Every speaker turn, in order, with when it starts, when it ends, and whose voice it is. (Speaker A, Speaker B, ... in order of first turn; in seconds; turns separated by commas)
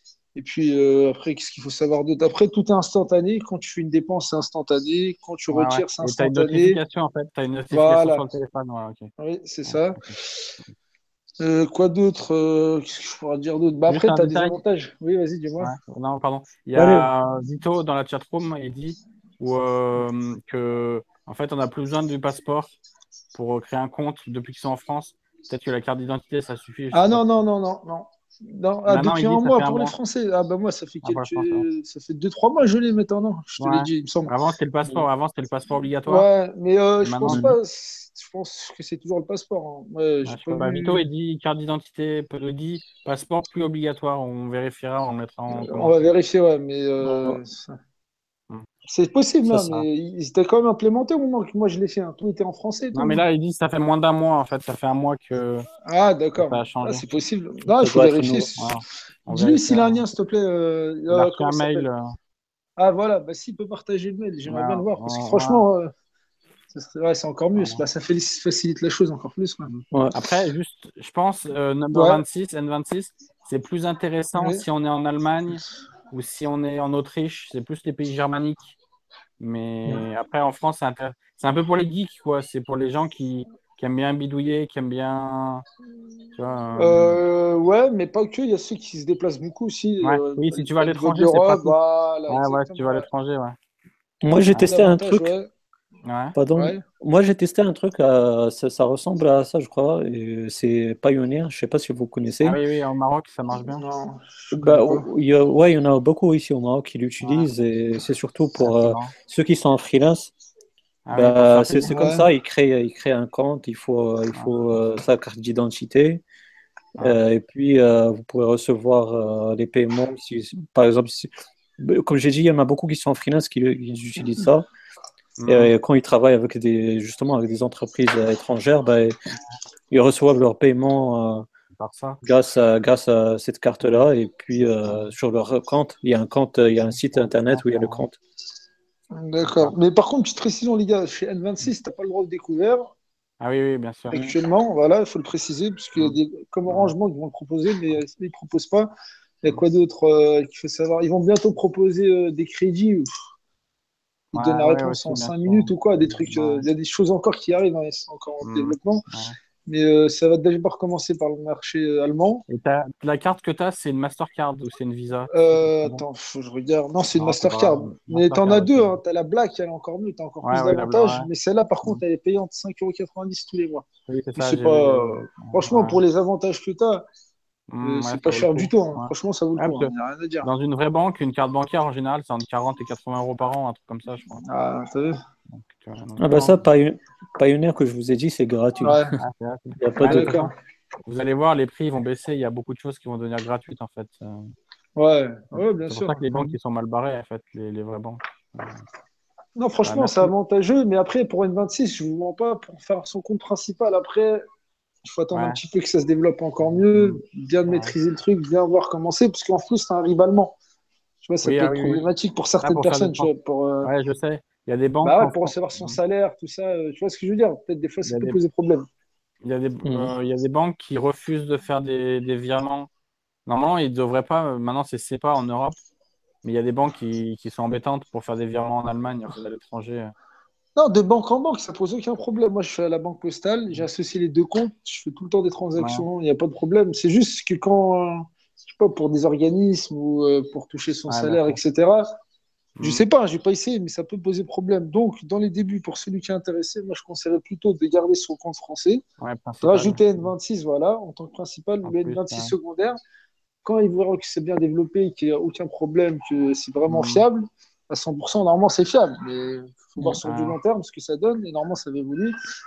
Speaker A: 0.3-6.8, Speaker B: 5.5-9.1, Speaker A: 7.7-8.3, Speaker A: 9.2-10.4, Speaker B: 9.7-10.2, Speaker A: 11.4-15.8, Speaker B: 13.9-14.6, Speaker B: 15.6-22.7, Speaker C: 16.8-17.1, Speaker B: 23.3-27.2, Speaker A: 26.9-34.3, Speaker B: 28.9-29.9, Speaker B: 31.0-31.6, Speaker B: 33.6-36.3, Speaker A: 36.1-41.0, Speaker B: 37.0-37.5, Speaker C: 37.3-37.6, Speaker B: 40.3-46.1, Speaker A: 45.5-47.8, Speaker C: 47.0-47.4, Speaker A: 48.9-53.2, Speaker C: 49.5-49.9, Speaker B: 52.9-55.7, Speaker A: 55.9-58.7, Speaker B: 56.4-57.1, Speaker C: 57.7-58.5, Speaker B: 58.6-60.0, Speaker A: 59.3-61.9, Speaker B: 61.1-62.1, Speaker A: 62.8-65.9, Speaker B: 64.5-65.6, Speaker A: 66.7-69.7, Speaker B: 67.6-67.8, Speaker B: 69.7-78.8, Speaker C: 69.9-70.2, Speaker A: 71.9-72.2, Speaker A: 74.3-74.7, Speaker B: 79.4-85.6, Speaker B: 86.4-87.2, Speaker A: 86.8-93.1, Speaker B: 90.0-91.8, Speaker B: 92.3-93.6, Speaker C: 94.2-95.3, Speaker B: 94.5-94.8, Speaker A: 94.6-95.5, Speaker B: 96.0-96.3, Speaker C: 96.3-102.6, Speaker A: 96.6-96.8, Speaker B: 102.4-103.8, Speaker A: 103.7-105.1, Speaker C: 104.5-110.3, Speaker B: 108.6-109.1, Speaker B: 111.1-111.9, Speaker C: 111.1-116.2, Speaker A: 111.8-112.3, Speaker C: 117.0-124.7, Speaker B: 125.4-125.7, Speaker C: 125.5-129.2, Speaker C: 129.9-131.5, Speaker B: 131.8-132.2, Speaker C: 132.2-138.2, Speaker B: 134.9-135.1, Speaker B: 137.1-138.1, Speaker A: 139.1-142.9, Speaker B: 139.4-139.8, Speaker B: 143.4-144.2, Speaker A: 144.1-148.9, Speaker B: 146.0-146.9, Speaker A: 149.4-153.1, Speaker A: 154.3-159.1, Speaker B: 154.3-156.7, Speaker B: 158.4-159.4, Speaker A: 159.7-162.4, Speaker B: 162.5-166.0, Speaker A: 165.3-173.8, Speaker B: 167.2-169.0, Speaker B: 170.4-171.3, Speaker B: 174.1-176.0, Speaker A: 174.4-177.1, Speaker B: 177.7-179.9, Speaker A: 177.8-180.5, Speaker B: 180.4-184.4, Speaker A: 184.4-185.2, Speaker B: 185.5-186.6, Speaker C: 186.2-189.1, Speaker A: 188.8-189.2, Speaker B: 189.2-190.5, Speaker C: 189.8-190.4, Speaker A: 190.0-190.5, Speaker B: 191.0-194.5, Speaker A: 195.0-196.5, Speaker B: 195.5-198.8, Speaker A: 199.6-204.4, Speaker B: 199.8-200.3, Speaker A: 205.0-210.6, Speaker B: 205.3-205.6, Speaker B: 206.7-207.9, Speaker A: 211.2-213.9, Speaker B: 211.4-212.1, Speaker B: 212.6-213.3, Speaker B: 213.8-216.0, Speaker A: 215.0-218.9, Speaker B: 218.1-218.4, Speaker B: 219.4-222.9, Speaker C: 219.8-220.1, Speaker B: 223.5-225.8, Speaker B: 226.4-230.1, Speaker A: 230.8-242.1, Speaker B: 235.8-236.1, Speaker B: 241.1-241.6, Speaker B: 242.8-243.0, Speaker A: 242.8-249.0, Speaker B: 249.2-250.3, Speaker A: 249.6-253.0, Speaker B: 251.8-252.5, Speaker A: 253.6-262.4, Speaker B: 256.9-257.2, Speaker B: 260.1-260.6